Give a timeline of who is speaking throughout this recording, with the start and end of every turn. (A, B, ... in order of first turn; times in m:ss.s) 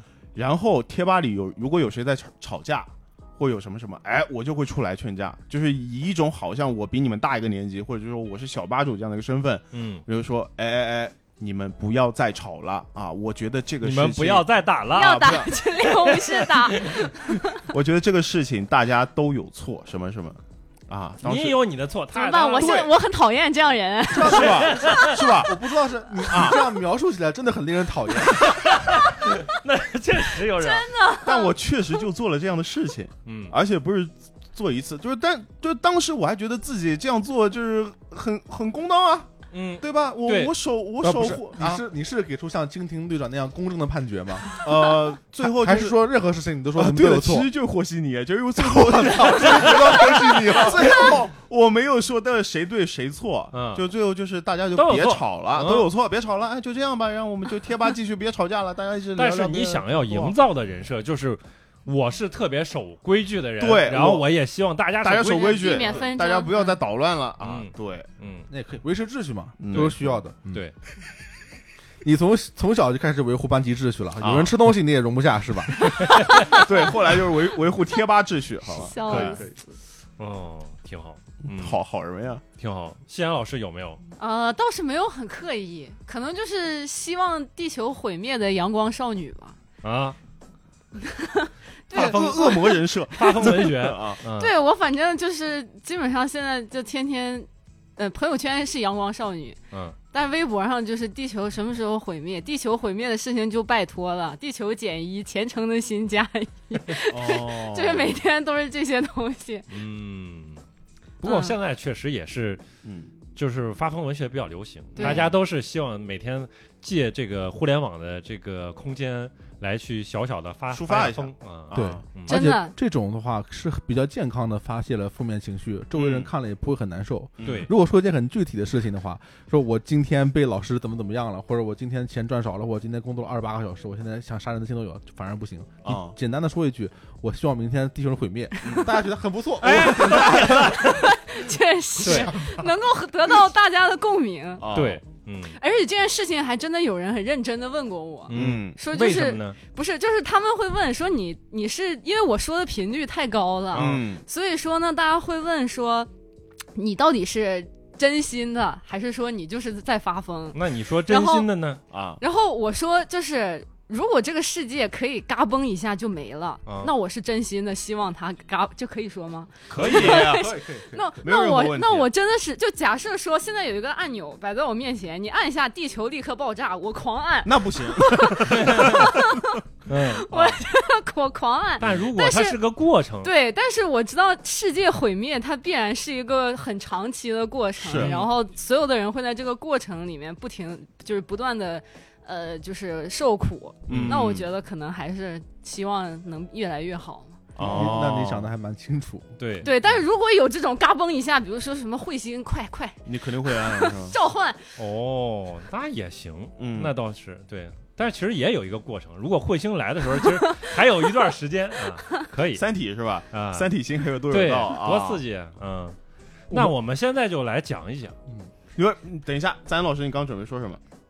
0:00.3-0:15.5 A
0:09.7-0:10.0 B
0:13.8-0:17.0 B
0:14.9-0:17.6 C
0:17.5-0:21.6 A
0:21.2-0:22.8 B
0:22.1-0:24.8 C
0:22.6-0:22.9 A
0:24.1-0:25.6 A
0:24.2-0:28.6 D
0:24.2-0:25.2 B
0:26.3-0:26.6 A
0:28.3-0:30.9 B
0:30.5-0:31.5 C
0:31.2-0:41.8 A
0:33.2-0:33.5 B
0:39.5-0:40.5 B
0:41.0-0:44.6 D
0:44.6-0:46.0 A
0:45.4-0:47.5 D
0:46.7-1:00.4 A
0:48.6-0:51.2 D
0:49.3-0:49.6 B
0:53.5-0:53.8 B
0:54.7-0:55.9 B
0:59.2-1:06.0 B
1:03.6-1:04.3 A
1:05.0-1:08.1 A
1:05.4-1:06.8 C
1:07.4-1:08.5 B
1:08.5-1:10.6 D
1:09.6-1:10.1 A
1:09.7-1:10.7 B
1:12.0-1:16.1 D
1:14.2-1:14.5 A
1:16.2-1:16.6 C
1:16.2-1:19.4 A
1:18.7-1:19.8 C
1:19.0-1:19.5 D
1:20.2-1:21.8 B
1:21.4-1:22.4 A
1:22.6-1:24.0 B
1:24.2-1:29.6 C
1:29.8-1:30.2 B
1:31.0-1:33.5 C
1:31.9-1:34.2 A
1:31.9-1:34.5 B
1:34.3-1:39.6 C
1:39.7-1:40.0 B
1:40.1-1:49.7 C
1:47.1-1:48.2 A
1:49.7-1:50.6 B
1:51.2-1:52.6 B
1:51.2-1:51.6 C
1:52.8-1:53.1 A
1:53.3-2:02.4 B
1:55.0-1:55.3 C
1:55.0-1:55.3 A
2:00.7-2:02.0 A
2:01.7-2:20.8 D
2:02.3-2:02.7 C
2:05.9-2:06.3 A
2:07.4-2:07.7 A
2:07.4-2:07.7 B
2:15.8-2:16.2 A
2:18.6-2:18.9 A
2:19.6-2:21.0 B
2:20.5-2:24.6 C
2:22.0-2:22.3 B
2:22.0-2:22.6 D
2:24.6-2:25.0 A
2:24.7-2:25.5 B
2:25.5-2:36.1 C
2:28.3-2:29.6 B
2:28.3-2:28.8 A
2:33.7-2:34.0 B
2:33.7-2:34.2 A
2:36.7-2:41.5 C
2:40.5-2:41.8 B
2:41.9-2:42.2 A
2:42.2-3:02.6 C
2:46.6-2:46.9 B
2:49.7-2:50.5 A
2:49.7-2:50.3 B
2:49.8-2:51.2 D
2:51.2-2:52.1 A
2:57.4-2:59.4 A
2:58.6-2:59.0 B
2:59.9-3:00.6 B
3:01.8-3:03.3 B
3:03.2-3:17.4 C
3:07.8-3:08.1 A
3:07.9-3:08.3 B
3:13.9-3:14.5 A
3:13.9-3:14.2 B
3:17.6-3:18.5 A
3:17.6-3:19.3 D
3:17.6-3:17.9 B
3:19.4-3:19.7 B
3:19.6-3:24.8 C
3:23.0-3:24.1 A
3:24.8-3:32.6 B
3:26.6-3:26.9 A
3:32.5-3:35.2 A
3:33.3-3:33.7 B
3:34.3-3:36.0 B
3:36.5-3:38.1 B
3:38.8-3:40.8 A